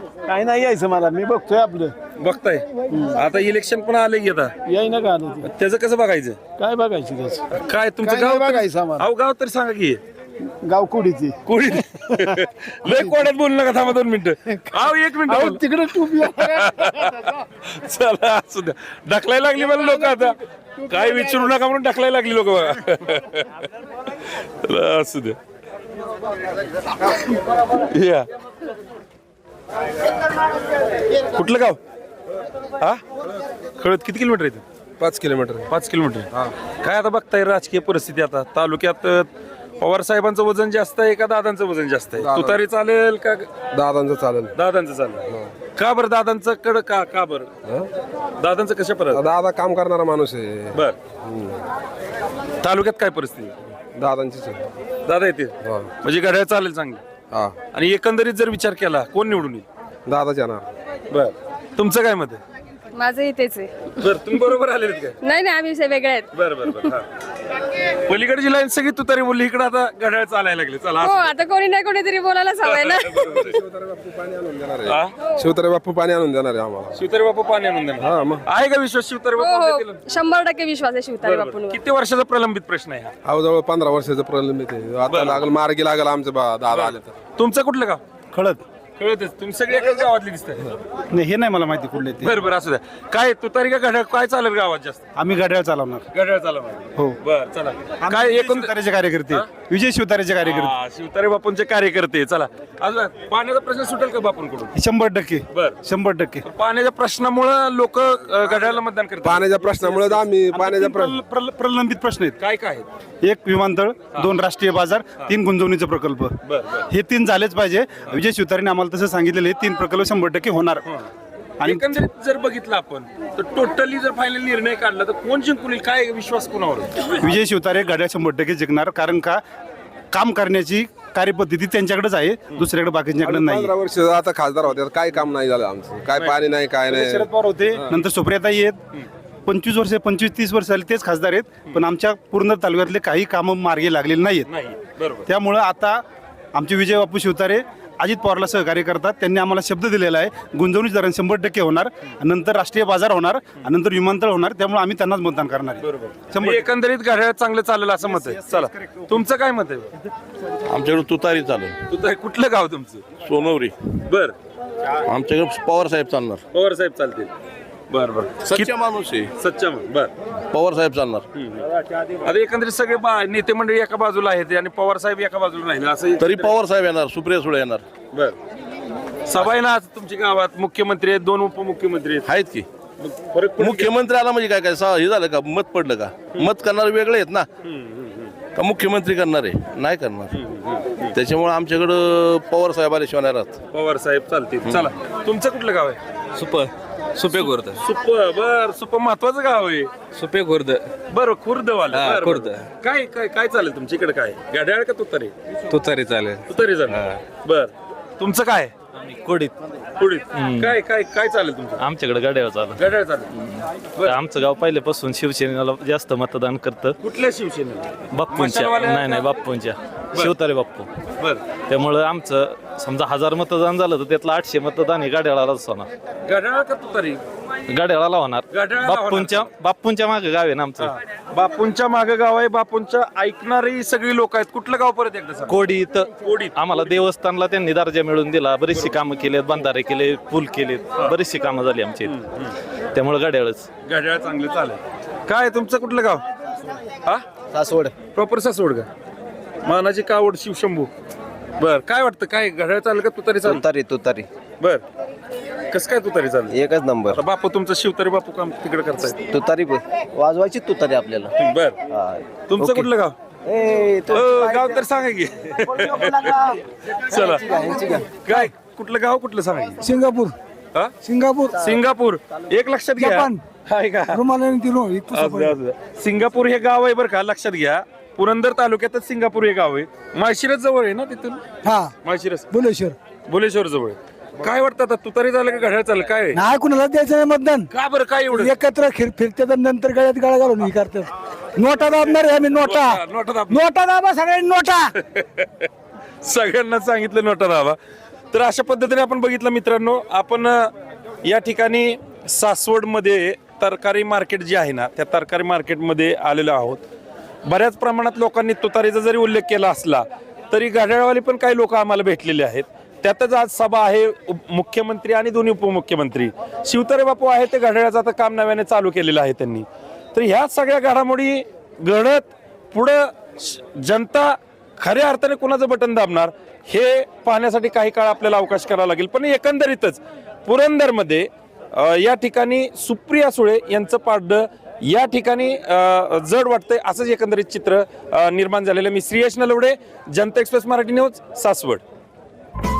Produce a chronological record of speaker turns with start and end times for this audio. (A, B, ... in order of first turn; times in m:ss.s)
0:00.3-0:01.9 A
0:02.2-0:04.5 B
0:02.9-0:03.2 A
0:04.6-0:05.5 A
0:05.4-0:06.4 B
0:06.6-0:07.4 A
0:07.5-0:10.0 B
0:08.0-0:09.0 A
0:10.6-0:11.4 A
0:11.4-0:15.6 B
0:15.3-0:16.6 A
0:16.2-0:20.4 B
0:20.9-0:23.6 B
0:24.6-0:25.4 B
0:27.9-0:28.2 B
0:31.3-0:31.8 B
0:33.8-0:34.6 B
0:35.0-0:35.7 C
0:35.7-0:36.3 B
0:36.8-0:39.3 B
0:39.8-0:43.5 B
0:42.2-0:42.6 C
0:43.7-0:44.5 C
0:44.6-0:47.5 B
0:48.4-0:49.2 B
0:49.1-0:51.6 C
0:52.6-0:53.6 B
0:53.9-0:54.7 C
0:55.0-0:57.0 B
0:55.6-0:55.9 C
0:57.7-0:59.6 B
1:00.1-1:00.6 C
1:01.1-1:02.4 B
1:03.0-1:04.4 D
1:04.0-1:05.2 B
1:05.2-1:06.3 D
1:06.3-1:07.0 B
1:08.1-1:11.3 B
1:11.0-1:13.4 D
1:12.6-1:13.6 B
1:13.4-1:17.0 C
1:14.9-1:15.1 B
1:17.0-1:20.0 B
1:18.0-1:18.4 C
1:19.4-1:21.8 D
1:21.2-1:23.1 B
1:23.2-1:27.1 C
1:25.1-1:25.4 B
1:26.7-1:28.0 B
1:28.3-1:28.6 E
1:29.0-1:30.7 B
1:31.1-1:32.4 E
1:32.2-1:35.0 B
1:35.2-1:36.0 E
1:36.1-1:38.7 B
1:38.0-1:40.7 E
1:40.4-1:44.7 B
1:44.8-1:46.4 E
1:45.5-1:45.8 B
1:46.4-1:50.2 B
1:49.2-1:51.2 C
1:50.5-1:52.4 E
1:52.4-1:52.8 B
1:53.2-1:56.4 E
1:56.4-1:56.9 B
1:56.9-2:00.8 E
2:01.6-2:02.0 E
2:01.6-2:06.9 B
2:07.2-2:09.4 E
2:10.1-2:13.7 E
2:13.2-2:17.3 C
2:16.9-2:18.8 E
2:19.4-2:24.5 E
2:24.5-2:25.3 B
2:25.3-2:26.0 E
2:26.5-2:36.7 E
2:35.8-2:39.9 B
2:38.1-2:39.2 E
2:40.6-2:41.7 F
2:41.9-2:43.0 B
2:43.2-2:43.7 F
2:44.1-2:44.3 B
2:45.0-2:46.4 F
2:46.5-2:47.3 B
2:47.9-2:48.7 B
2:48.4-2:49.3 F
2:49.4-2:50.1 B
2:50.5-2:51.2 F
2:51.3-2:51.6 B
2:52.2-2:56.5 B
2:56.2-2:57.8 F
2:58.1-2:58.4 B
2:59.2-3:02.2 B
3:02.2-3:02.6 F
3:03.0-3:03.9 B
3:03.6-3:07.5 F
3:07.6-3:08.3 B
3:08.6-3:10.3 F
3:10.3-3:11.1 B
3:11.1-3:13.6 F
3:13.7-3:16.0 B
3:16.4-3:17.8 G
3:17.3-3:19.9 B
3:20.1-3:20.9 G
3:21.1-3:25.3 B
3:21.9-3:22.6 G
3:25.7-3:27.2 G
3:26.5-3:28.7 B
3:29.0-3:29.5 H
3:30.0-3:31.8 B
3:30.3-3:30.8 H
3:31.8-3:32.8 H
3:32.8-3:33.3 B
3:34.0-3:37.0 H
3:37.0-3:39.3 B
3:38.1-3:40.9 H
3:41.7-3:45.9 H
3:46.2-3:47.2 B
3:47.7-3:51.0 H
3:48.5-3:49.5 B
3:50.8-3:55.5 B
3:55.5-4:02.2 H
3:56.2-3:56.6 B
4:02.1-4:02.5 B
4:02.9-4:03.7 H
4:03.8-4:06.2 B
4:07.5-4:07.9 I
4:08.1-4:08.9 B
4:09.6-4:10.9 B
4:11.6-4:13.6 B
4:13.4-4:14.3 I
4:15.7-4:16.6 B
4:16.5-4:17.2 I
4:17.1-4:19.2 B
4:19.3-4:21.3 I
4:21.4-4:21.8 B
4:21.9-4:22.9 I
4:22.5-4:23.2 B
4:23.5-4:24.4 I
4:24.1-4:26.4 B
4:27.1-4:27.7 B
4:27.4-4:28.0 I
4:27.6-4:27.9 A
4:28.2-4:29.8 B
4:29.8-4:30.3 J
4:31.0-4:31.7 J
4:31.6-4:34.2 B
4:33.0-4:33.4 J
4:34.1-4:35.5 J
4:35.1-4:41.4 B
4:41.6-4:41.9 J
4:42.0-4:42.5 B
4:42.5-4:43.0 J
4:43.3-4:46.4 B
4:46.3-4:47.7 J
4:47.7-4:48.5 B
4:48.3-4:54.9 J
4:52.6-4:53.6 B
4:55.0-4:55.7 B
4:56.2-4:57.8 B
4:58.3-5:00.7 B
5:01.2-5:06.8 B
5:07.4-5:41.8 B